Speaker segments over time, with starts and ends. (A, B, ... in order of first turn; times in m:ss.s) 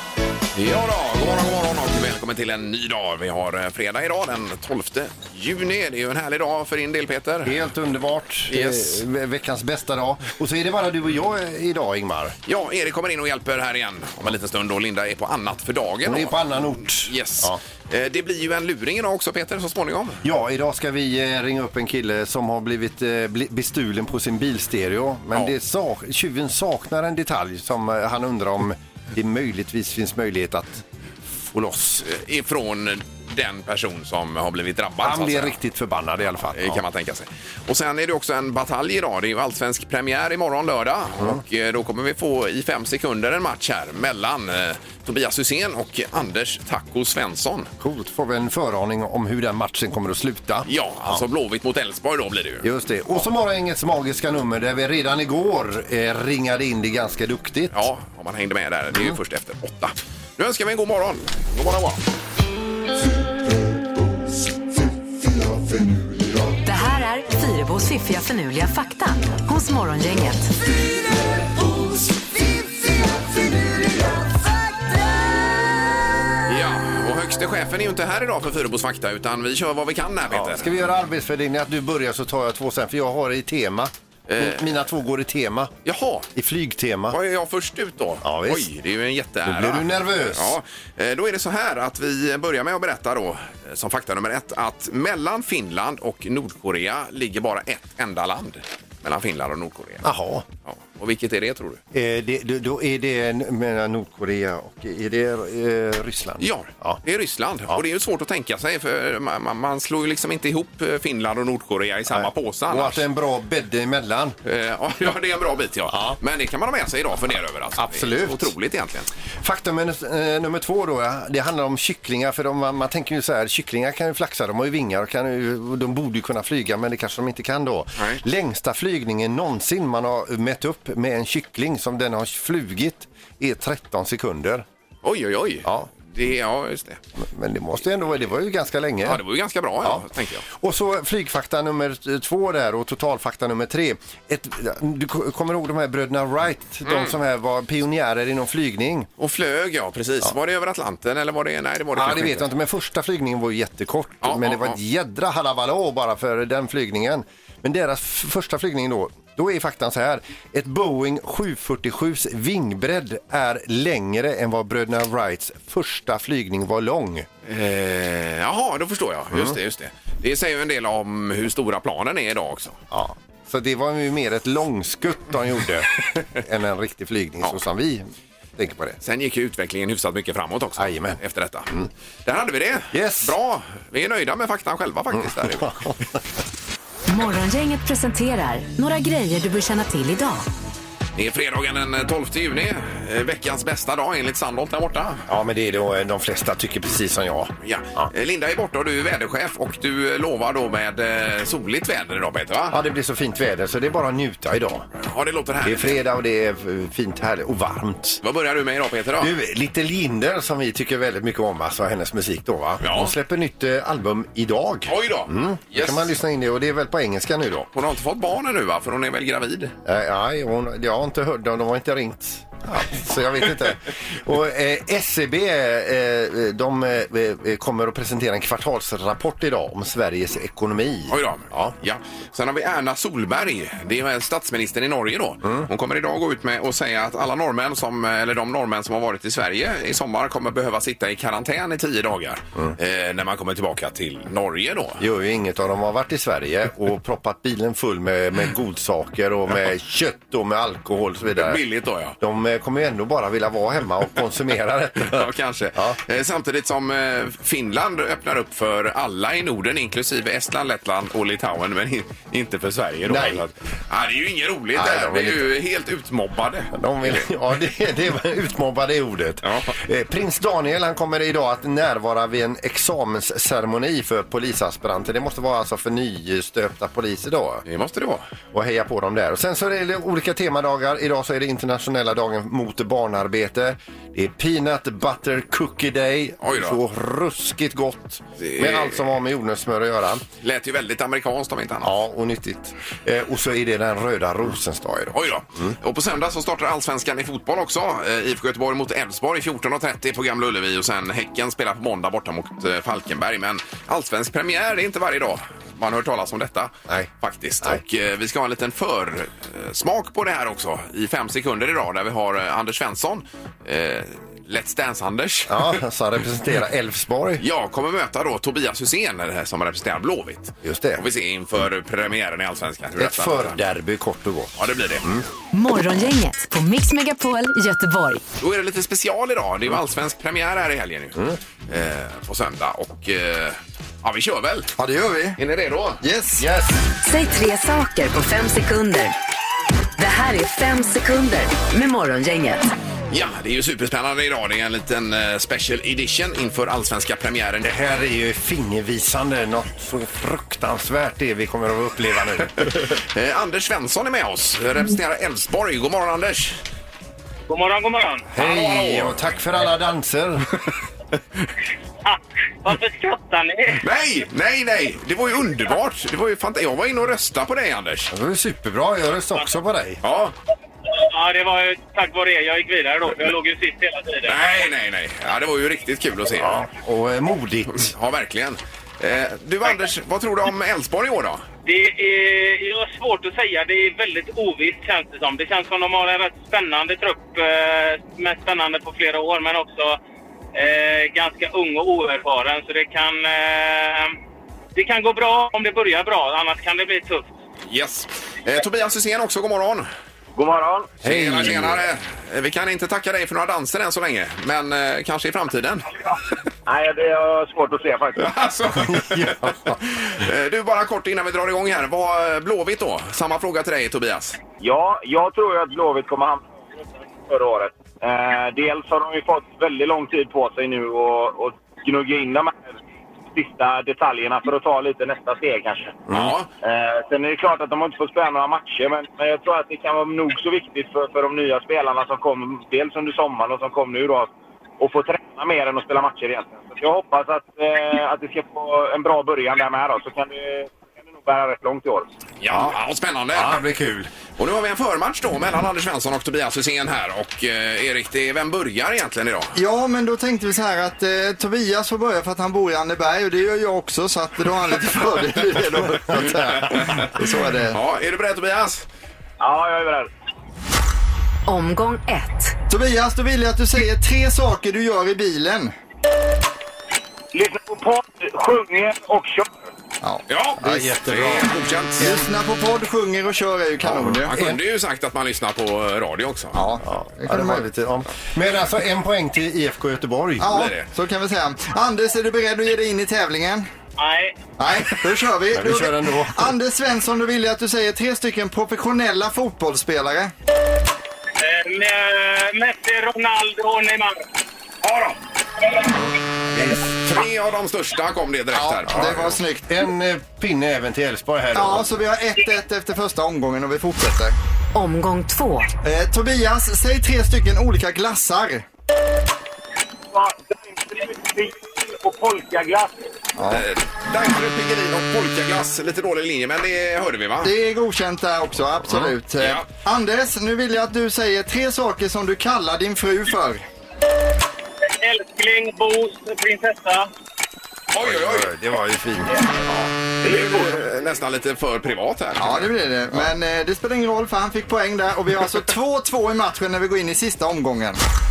0:00.6-0:07.6 A
0:07.4-0:12.4 B
0:08.5-0:09.0 A
0:12.5-0:20.2 A
0:16.0-0:17.6 B
0:20.2-0:32.1 B
0:32.0-0:35.6 A
0:35.0-0:36.8 B
0:36.5-0:47.7 A
0:47.8-0:51.2 B
0:50.7-0:53.2 A
0:52.6-0:57.9 B
0:57.7-1:02.0 A
0:58.9-0:59.2 B
1:06.6-1:10.5 C
1:16.5-1:20.7 A
1:20.3-1:25.7 B
1:24.3-1:24.8 A
1:25.8-1:26.3 A
1:26.4-1:27.2 B
1:27.1-1:40.1 A
1:28.2-1:28.7 B
1:29.4-1:30.6 B
1:40.0-1:40.5 B
1:40.7-1:41.8 A
1:41.9-1:47.0 B
1:46.4-1:53.0 A
1:52.1-1:54.4 B
1:54.4-1:59.1 A
1:55.9-1:56.2 B
1:57.8-1:58.5 B
1:59.4-2:14.7 B
2:15.0-2:17.0 A
2:15.6-2:15.9 B
2:17.2-2:19.2 B
2:19.0-2:20.4 A
2:19.8-2:29.1 B
2:26.8-2:27.2 A
2:29.2-2:32.5 A
2:32.0-2:47.3 B
2:34.2-2:34.8 A
2:47.5-2:52.8 A
2:52.9-2:58.1 B
2:58.6-2:59.0 B
2:59.0-3:01.7 A
3:00.8-3:01.9 B
3:02.2-3:05.8 A
3:02.9-3:03.3 B
3:05.2-3:06.2 B
3:07.1-3:10.5 C
3:11.2-3:15.3 A
3:15.3-3:18.1 B
3:17.6-3:22.8 A
3:22.7-3:24.9 B
3:25.0-3:26.0 A
3:25.6-3:28.2 B
3:28.2-3:29.3 A
3:29.2-3:37.7 B
3:32.8-3:33.1 A
3:34.9-3:36.1 A
3:37.7-3:39.7 A
3:39.8-3:51.8 B
3:51.1-4:05.0 A
4:05.0-4:11.6 B
4:11.4-4:12.2 A
4:12.2-4:16.0 B
4:15.0-4:27.3 A
4:23.1-4:23.4 B
4:24.8-4:25.5 B
4:26.7-4:37.6 B
4:29.4-4:29.7 A
4:37.7-4:38.2 A
4:38.5-4:50.3 B
4:46.4-4:46.8 A
4:48.4-4:49.1 A
4:50.4-4:52.0 A
4:51.8-4:55.8 B
4:55.1-5:15.8 A
5:15.5-5:17.4 B
5:17.4-5:23.6 A
5:20.6-5:21.0 B
5:23.0-5:25.3 B
5:24.6-5:25.1 A
5:25.5-5:28.2 C
5:28.4-5:34.7 A
5:34.8-5:35.4 D
5:35.4-5:36.0 A
5:36.0-5:36.4 D
5:36.4-5:36.8 B
5:37.0-5:39.2 C
5:40.0-5:42.6 C
5:43.1-5:47.7 A
5:47.6-5:52.8 B
5:52.7-5:56.6 A
5:57.5-5:58.3 E
5:58.3-6:00.5 B
5:58.4-5:59.2 A
6:02.0-6:03.8 E
6:03.8-6:08.1 A
6:08.1-6:10.0 B
6:10.0-6:10.4 A
6:10.9-6:14.4 E
6:14.3-6:16.6 A
6:16.3-6:17.9 B
6:17.7-6:21.4 A
6:21.6-6:30.0 E
6:30.5-6:34.2 E
6:34.8-6:37.3 E
6:37.7-6:39.9 A
6:40.4-6:41.0 F
6:41.0-6:41.8 B
6:41.0-6:45.9 A
6:46.7-6:48.3 F
6:48.2-6:54.4 A
6:48.8-6:49.8 B
6:54.6-6:56.5 F
6:57.2-7:02.8 F
7:03.3-7:06.0 F
7:06.1-7:06.4 B
7:06.1-7:06.5 A
7:06.6-7:22.1 F
7:22.4-7:23.6 A
7:22.5-7:22.8 B
7:23.3-7:24.1 B
7:24.3-7:29.6 A
7:29.6-7:37.8 D
7:36.1-7:36.7 B
7:36.2-7:37.2 A
7:37.7-7:38.9 A
7:39.4-7:40.1 F
7:41.5-7:42.6 C
7:42.7-7:45.7 D
7:47.3-7:49.5 F
7:50.3-7:52.1 A
7:50.6-7:52.2 B
7:52.0-7:54.3 D
7:53.8-7:54.6 B
7:54.2-7:56.6 A
7:56.5-7:57.7 D
7:56.8-8:00.6 B
8:00.4-8:03.7 D
8:00.5-8:00.9 A
8:04.0-8:04.4 E
8:04.6-8:10.3 D
8:05.5-8:06.6 B
8:11.4-8:14.2 E
8:14.8-8:15.2 A
8:16.5-8:19.4 A
8:18.5-8:19.7 D
8:18.9-8:21.9 B
8:21.5-8:24.4 D
8:24.7-8:25.7 C
8:25.8-8:28.7 D
8:30.1-8:32.9 F
8:33.4-8:33.7 D
8:33.5-8:37.5 A
8:37.4-8:43.7 D
8:38.8-8:39.1 B
8:39.4-8:39.7 A
8:44.8-8:47.1 E
8:47.9-8:48.5 A
8:48.0-8:49.3 B
8:49.7-8:52.7 A
8:50.2-8:50.9 F
8:52.4-8:58.0 D